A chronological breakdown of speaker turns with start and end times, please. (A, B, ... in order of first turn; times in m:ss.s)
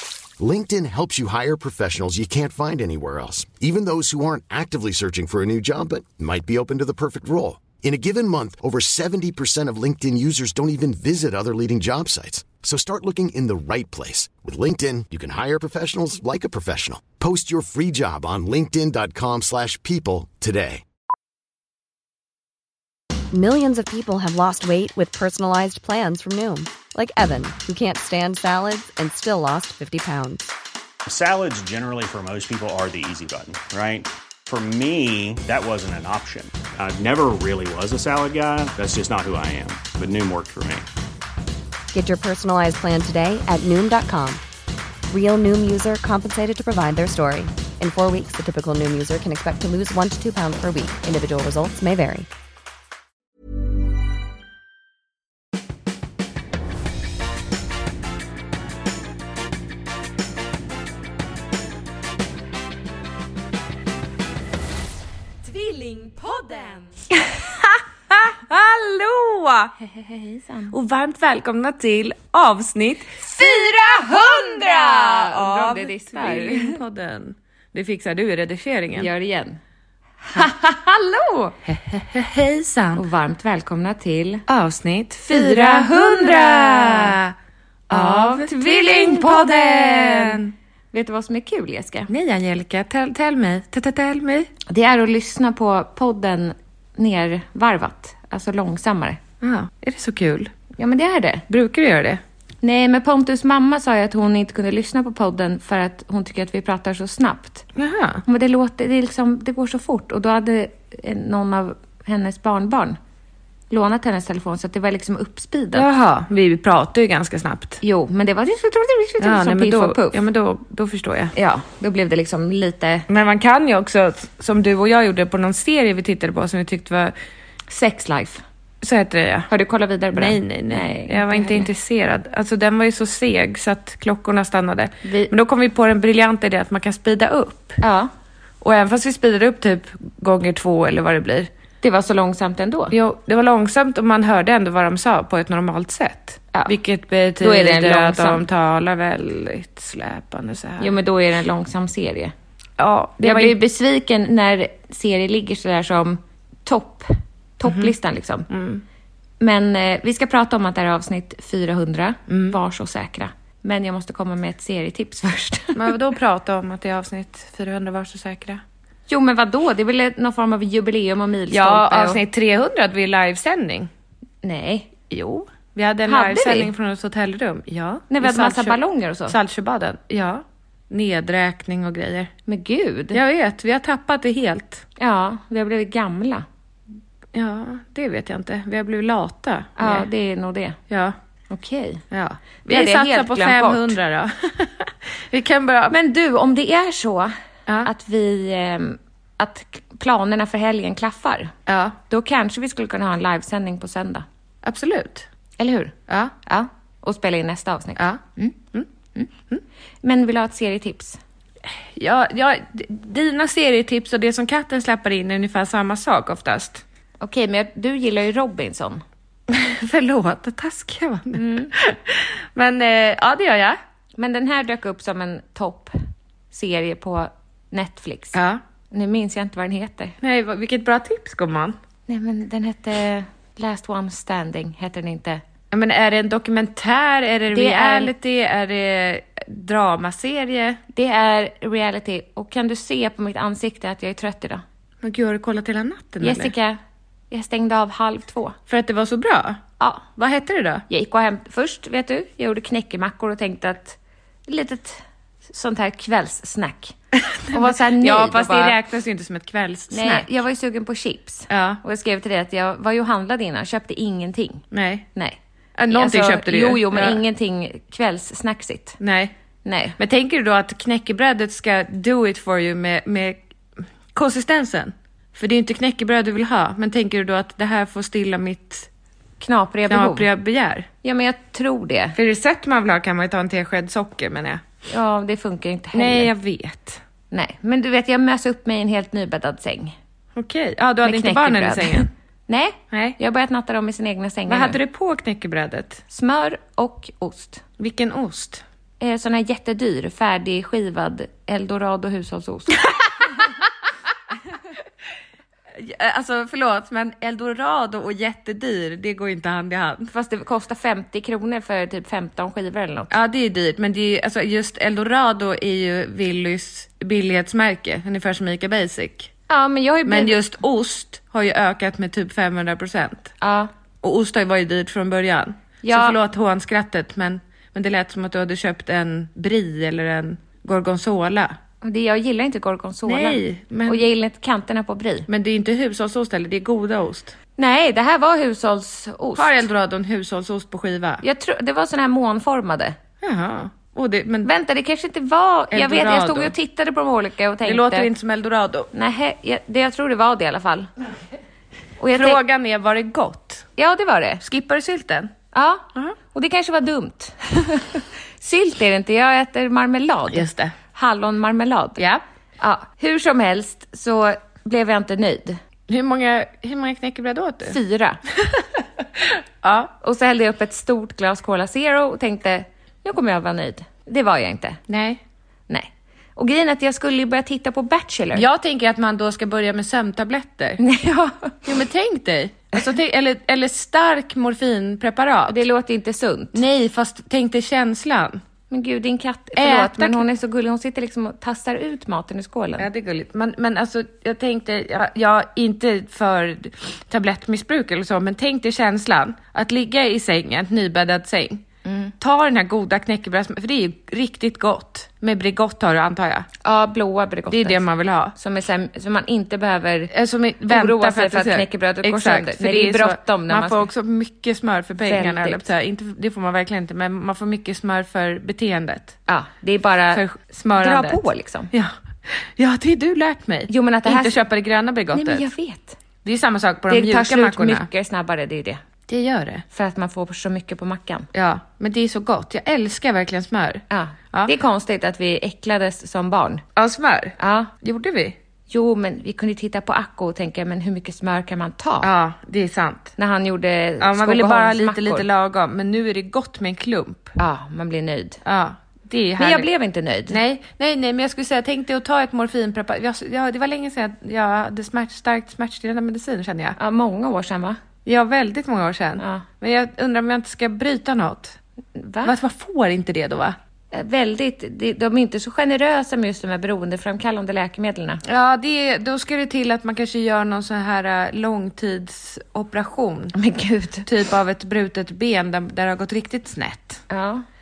0:00.4-0:20.8 A
0:23.3-0:30.5 B
0:31.0-0:40.9 C
0:41.9-0:44.4 B
0:45.1-0:52.3 B
1:05.5-1:06.9 D
1:08.1-1:09.7 D
1:09.8-1:10.7 E
1:10.7-1:19.1 D
1:13.3-1:16.8 E
1:18.9-1:19.6 E
1:20.2-1:21.6 E
1:21.7-1:23.0 D
1:22.9-1:24.4 E
1:24.5-1:27.3 D
1:25.3-1:27.2 E
1:27.9-1:30.5 D
1:27.9-1:32.1 E
1:32.1-1:34.5 D
1:34.7-1:39.2 E
1:39.4-1:40.5 D
1:40.8-1:41.4 E
1:41.5-1:42.2 D
1:42.6-1:47.6 E
1:47.8-1:48.2 D
1:48.2-1:53.0 E
1:53.7-1:55.9 E
1:55.7-1:57.8 D
1:57.8-2:00.2 E
1:59.2-2:01.3 D
2:01.3-2:03.0 E
2:03.1-2:07.1 D
2:07.7-2:08.4 E
2:08.8-2:09.5 D
2:09.5-2:11.7 E
2:10.1-2:17.8 D
2:15.0-2:15.3 E
2:17.8-2:18.1 E
2:18.6-2:21.5 D
2:21.8-2:22.9 E
2:22.9-2:30.9 D
2:27.4-2:28.4 E
2:30.8-2:32.3 E
2:32.8-2:33.6 D
2:33.2-2:38.5 E
2:37.6-2:37.9 D
2:38.5-2:38.8 D
2:39.4-2:45.9 E
2:42.3-2:42.6 D
2:45.7-2:48.6 D
2:49.1-2:52.2 E
2:51.5-2:53.9 D
2:54.4-2:54.9 E
2:55.1-3:02.3 D
2:56.1-2:56.7 E
2:58.1-2:59.4 E
3:02.5-3:03.2 E
3:03.1-3:04.8 D
3:05.0-3:06.4 E
3:07.3-3:10.1 D
3:09.8-3:10.8 E
3:10.9-3:11.1 D
3:11.5-3:12.0 E
3:12.1-3:15.9 D
3:12.7-3:13.9 E
3:15.9-3:21.5 E
3:21.7-3:22.0 D
3:22.1-3:24.2 E
3:24.6-3:25.2 D
3:25.6-3:28.6 E
3:26.1-3:26.3 D
3:30.0-3:31.2 E
3:31.7-3:36.8 D
3:37.2-3:39.0 E
3:39.5-3:43.8 D
3:41.3-3:41.7 E
3:44.2-3:45.9 E
3:46.5-3:48.4 E
3:48.3-3:48.6 D
3:48.9-3:50.2 E
3:50.2-3:51.8 D
3:52.1-3:55.4 E
3:55.7-4:00.8 D
3:57.5-3:58.1 E
4:00.9-4:04.6 E
4:05.0-4:06.5 D
4:06.2-4:06.8 E
4:07.3-4:08.6 E
4:08.7-4:09.6 D
4:10.1-4:10.8 D
4:10.9-4:16.9 E
4:17.2-4:20.3 D
4:17.5-4:18.8 E
4:19.9-4:24.6 E
4:21.5-4:21.8 D
4:24.7-4:25.0 D
4:25.8-4:27.2 D
4:25.9-4:29.0 E
4:29.0-4:29.3 D
4:29.6-4:30.0 E
4:30.0-4:33.4 D
4:34.1-4:38.9 D
4:39.4-4:40.3 E
4:39.9-4:40.9 D
4:41.0-4:42.2 E
4:42.1-4:44.6 D
4:44.9-4:46.3 E
4:45.9-4:47.0 D
4:47.3-4:50.0 E
4:50.4-4:52.1 D
4:51.0-4:54.8 E
4:52.9-4:53.2 D
4:54.5-4:56.0 D
4:56.1-4:57.6 E
4:57.8-4:58.6 D
4:59.0-5:03.3 E
5:05.7-5:10.1 D
5:10.1-5:13.1 E
5:13.1-5:19.3 D
5:19.5-5:20.4 E
5:20.0-5:23.3 D
5:23.4-5:23.7 E
5:24.0-5:31.5 D
5:25.8-5:26.2 E
5:31.8-5:35.3 E
5:33.1-5:34.0 D
5:35.3-5:37.3 D
5:37.6-5:39.6 E
5:39.4-5:41.2 D
5:41.2-5:43.0 E
5:43.2-5:44.5 D
5:44.4-5:48.1 E
5:45.7-5:46.5 D
5:47.6-5:48.9 D
5:48.9-5:50.9 E
5:52.0-5:52.4 E
5:52.1-5:53.7 D
5:53.8-5:54.4 E
5:54.4-5:55.3 D
5:55.5-6:02.0 E
6:00.3-6:00.7 D
6:02.6-6:05.6 E
6:05.9-6:07.8 D
6:07.7-6:08.2 E
6:09.2-6:09.9 D
6:10.0-6:14.8 E
6:14.9-6:15.2 D
6:15.7-6:18.5 E
6:18.3-6:20.8 D
6:20.8-6:21.6 E
6:21.6-6:25.6 D
6:25.5-6:26.6 E
6:26.5-6:28.4 D
6:28.7-6:32.9 E
6:29.6-6:30.2 D
6:32.8-6:41.6 D
6:41.8-6:42.1 E
6:42.2-6:46.5 D
6:46.6-6:47.8 E
6:47.5-6:48.3 D
6:48.3-6:50.1 E
6:50.1-6:59.2 D
6:50.7-6:53.9 E
6:55.0-6:55.6 E
6:59.3-7:00.2 E
7:00.1-7:05.4 D
7:00.8-7:01.7 E
7:03.7-7:04.4 E
7:05.1-7:06.0 E
7:06.2-7:07.9 D
7:06.9-7:08.8 E
7:09.1-7:09.6 D
7:09.7-7:11.3 E
7:11.3-7:14.5 D
7:13.9-7:16.6 E
7:16.8-7:18.3 D
7:17.4-7:17.7 E
7:18.7-7:22.1 E
7:22.0-7:23.1 D
7:23.2-7:25.2 E
7:24.0-7:27.3 D
7:27.4-7:28.4 E
7:28.4-7:29.7 D
7:29.4-7:30.4 E
7:30.3-7:36.8 D
7:36.8-7:37.8 E
7:38.0-7:41.6 D
7:39.2-7:39.4 E
7:41.9-7:42.3 E
7:42.2-7:43.6 D
7:43.9-7:48.2 E
7:48.2-7:53.3 D
7:53.3-7:54.1 E
7:54.0-7:57.0 D
7:57.1-7:57.4 E